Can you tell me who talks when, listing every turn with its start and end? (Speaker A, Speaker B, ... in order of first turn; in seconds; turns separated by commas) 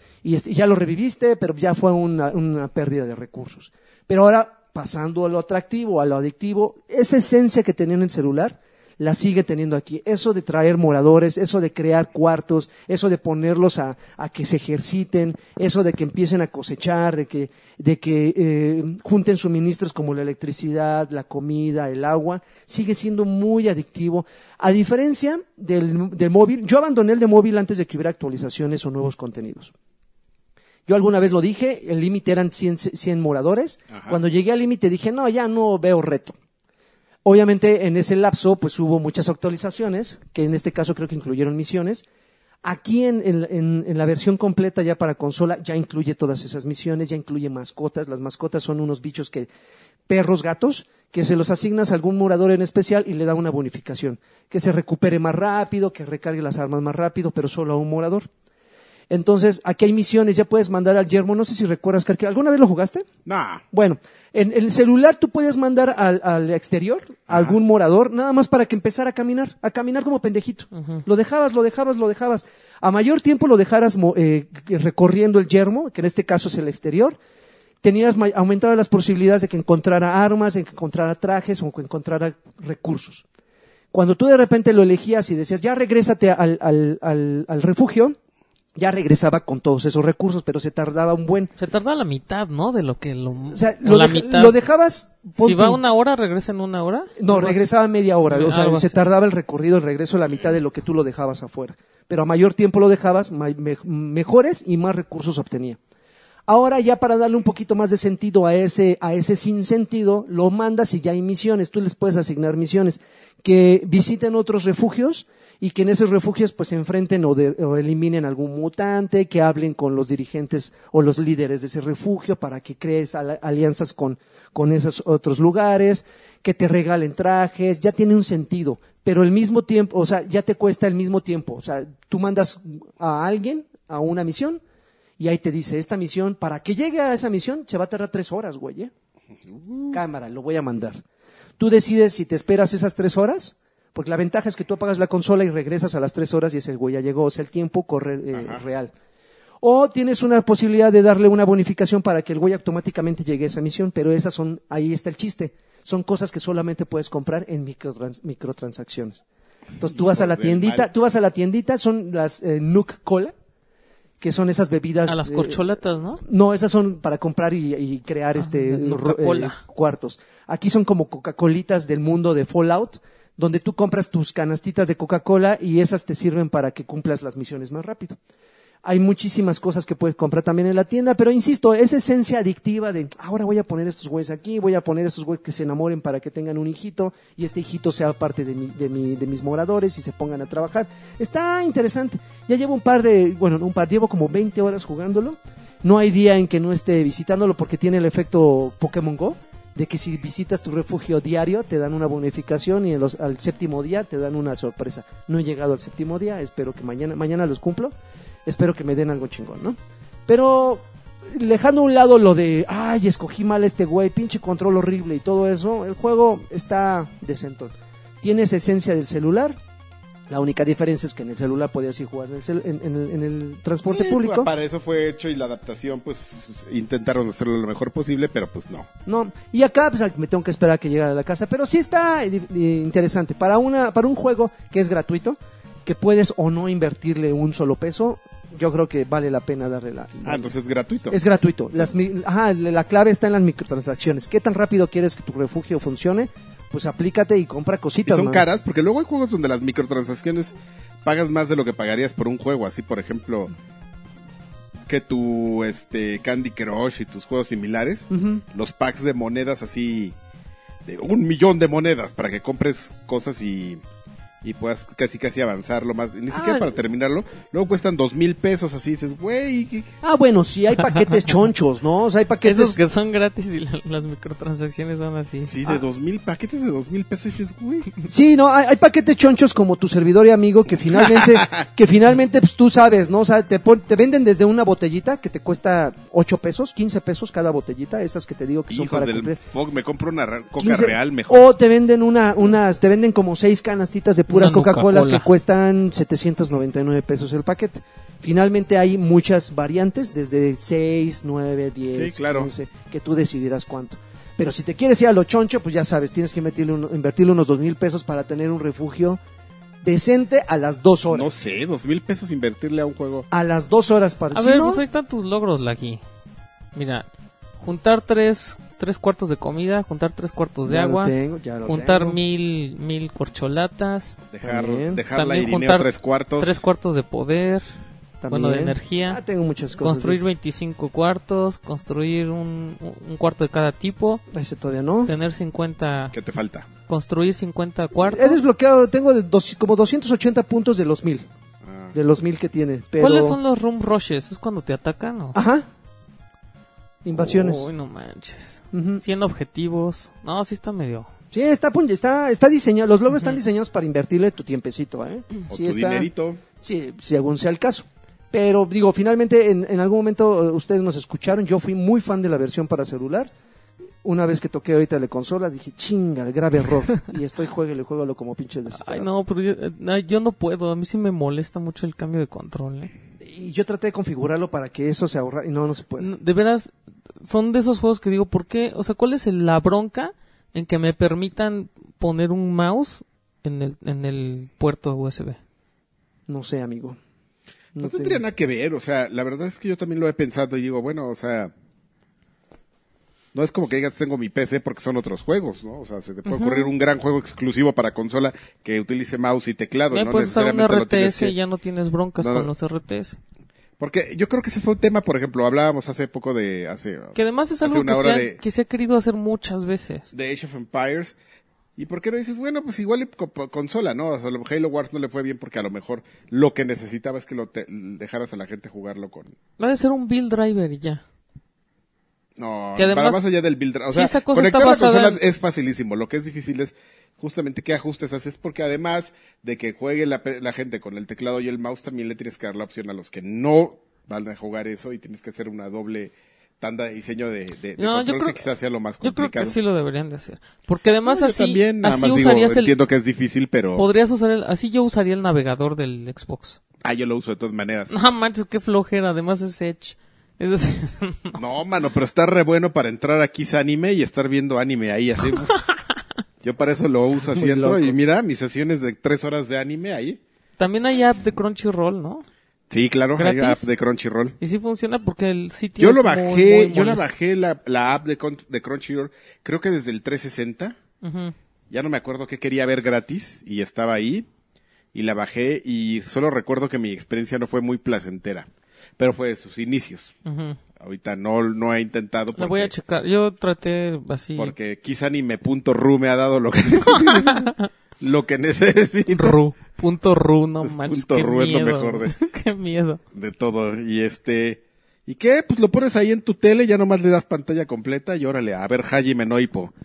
Speaker A: 0.2-29.7, Speaker A: 30.9-36.4, Speaker A: 37.2-42.0, Speaker A: 42.6-49.5, Speaker A: 50.1-58.3, Speaker A: 59.1-63.1, Speaker B: 63.3-63.6, Speaker A: 63.7-77.2, Speaker B: 67.3-67.6, Speaker C: 70.8-71.0, Speaker A: 77.8-83.2, Speaker A: 83.9-88.2, Speaker A: 88.8-91.5, Speaker C: 91.6-94.6, Speaker A: 93.5-95.8, Speaker C: 95.4-97.6, Speaker A: 97.2-105.8, Speaker C: 98.3-99.0, Speaker A: 106.5-134.6, Speaker A: 135.2-138.9, Speaker B: 139.5-140.0, Speaker A: 139.9-141.0, Speaker A: 141.6-148.9, Speaker B: 148.3-148.6, Speaker A: 149.6-159.2, Speaker A: 159.8-163.3, Speaker B: 159.9-160.9, Speaker A: 164.2-165.6, Speaker C: 165.1-166.2, Speaker A: 166.2-178.2, Speaker C: 168.4-169.6, Speaker A: 178.8-207.9, Speaker A: 208.5-219.6, Speaker A: 220.3-224.5, Speaker B: 223.9-228.9, Speaker A: 229.1-240.5, Speaker B: 240.2-241.2, Speaker A: 241.1-248.4, Speaker B: 248.1-250.5, Speaker B: 251.1-253.5, Speaker B: 254.9-260.1, Speaker A: 258.1-258.4, Speaker B: 260.9-263.8, Speaker B: 264.4-269.9, Speaker A: 266.3-266.7, Speaker A: 270.0-272.8, Speaker C: 272.4-275.6, Speaker B: 275.5-277.9, Speaker A: 278.1-289.4, Speaker B: 281.1-281.5, Speaker B: 288.7-291.5, Speaker A: 290.6-309.2, Speaker C: 294.3-295.3, Speaker B: 301.9-302.5, Speaker A: 309.8-311.3, Speaker B: 311.1-313.3, Speaker A: 313.3-314.8, Speaker C: 314.3-316.0, Speaker C: 316.7-317.1, Speaker C: 317.6-321.1, Speaker A: 320.7-322.2, Speaker C: 321.7-324.2, Speaker B: 324.3-326.6, Speaker A: 324.4-325.0, Speaker C: 325.1-327.7, Speaker A: 328.2-330.3, Speaker C: 328.3-329.2, Speaker C: 329.8-334.2, Speaker A: 334.3-335.1, Speaker C: 335.1-336.1, Speaker B: 336.1-336.7, Speaker C: 336.9-338.4, Speaker A: 338.0-341.2, Speaker B: 341.6-341.9, Speaker A: 341.9-343.4, Speaker C: 343.0-345.4, Speaker A: 345.3-345.7, Speaker A: 347.0-347.7, Speaker C: 347.1-351.1, Speaker A: 348.7-349.0, Speaker A: 351.3-363.3, Speaker B: 355.5-356.4, Speaker A: 364.0-369.1, Speaker C: 368.8-372.9, Speaker A: 373.2-376.1, Speaker C: 376.0-385.4, Speaker A: 386.3-387.0, Speaker A: 387.8-388.2, Speaker B: 387.8-391.5, Speaker B: 393.3-401.3, Speaker C: 396.3-396.7, Speaker C: 399.9-403.2, Speaker B: 402.2-402.5, Speaker B: 403.8-408.4, Speaker C: 407.1-410.1, Speaker B: 410.1-411.1, Speaker B: 411.8-419.3, Speaker C: 419.6-421.0, Speaker B: 422.4-439.6, Speaker C: 422.8-423.2, Speaker C: 423.9-425.2, Speaker C: 437.8-438.5, Speaker C: 439.0-442.7, Speaker B: 441.1-443.9, Speaker C: 443.8-446.6, Speaker B: 446.8-448.0, Speaker C: 447.9-451.4, Speaker B: 451.4-455.6, Speaker B: 456.4-460.2, Speaker A: 457.2-458.0, Speaker C: 460.6-462.3, Speaker B: 462.7-464.4, Speaker C: 463.2-463.7, Speaker C: 464.4-467.1, Speaker B: 465.8-470.8, Speaker C: 471.0-471.3, Speaker B: 471.7-474.3, Speaker B: 474.9-480.1, Speaker C: 480.3-480.6, Speaker B: 480.8-482.7, Speaker C: 482.4-484.6, Speaker B: 484.4-489.4, Speaker C: 486.9-487.7, Speaker C: 489.1-493.0, Speaker B: 490.6-492.1, Speaker B: 493.1-499.7